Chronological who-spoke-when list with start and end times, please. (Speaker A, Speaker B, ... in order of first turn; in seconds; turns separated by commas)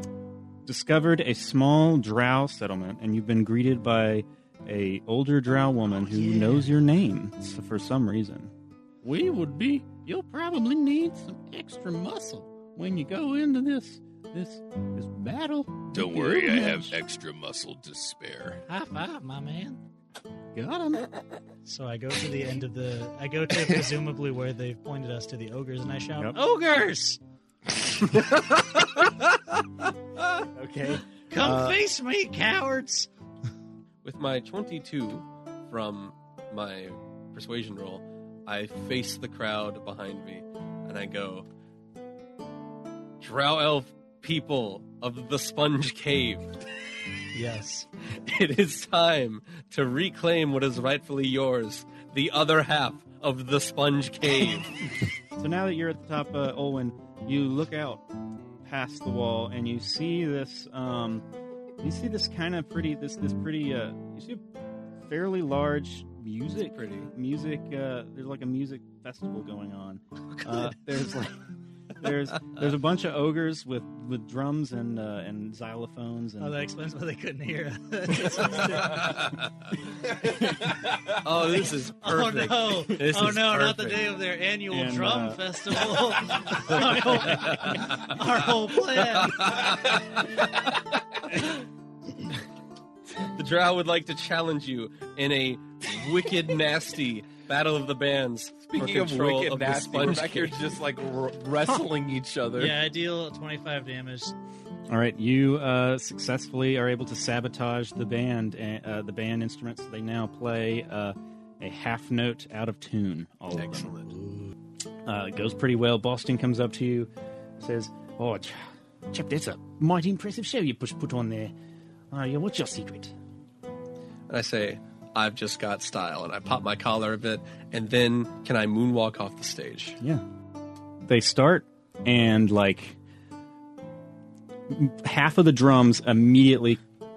Speaker A: 0.6-8.5, Speaker B: 6.2-6.6, Speaker C: 9.0-14.6, Speaker A: 12.8-13.1, Speaker A: 14.9-15.3, Speaker C: 15.2-17.1, Speaker D: 16.0-18.4, Speaker B: 18.7-19.8, Speaker C: 20.6-21.1, Speaker B: 21.6-27.2, Speaker B: 30.5-33.1, Speaker A: 31.4-31.8, Speaker E: 34.0-41.5, Speaker E: 43.2-46.5, Speaker B: 47.3-47.9, Speaker E: 48.1-54.7, Speaker A: 55.4-58.0, Speaker A: 58.6-61.2, Speaker A: 61.8-64.4, Speaker A: 65.0-71.4, Speaker E: 66.6-67.1, Speaker B: 70.5-70.7, Speaker A: 72.0-76.5, Speaker B: 76.4-79.2, Speaker E: 81.2-84.0, Speaker B: 81.5-89.6, Speaker A: 84.7-85.4, Speaker E: 89.4-89.7, Speaker E: 93.3-100.6, Speaker D: 98.8-102.7, Speaker B: 102.5-104.3, Speaker A: 104.9-114.4, Speaker A: 115.0-121.5, Speaker A: 122.1-123.1, Speaker E: 124.3-130.0, Speaker A: 131.0-132.9, Speaker A: 134.7-136.8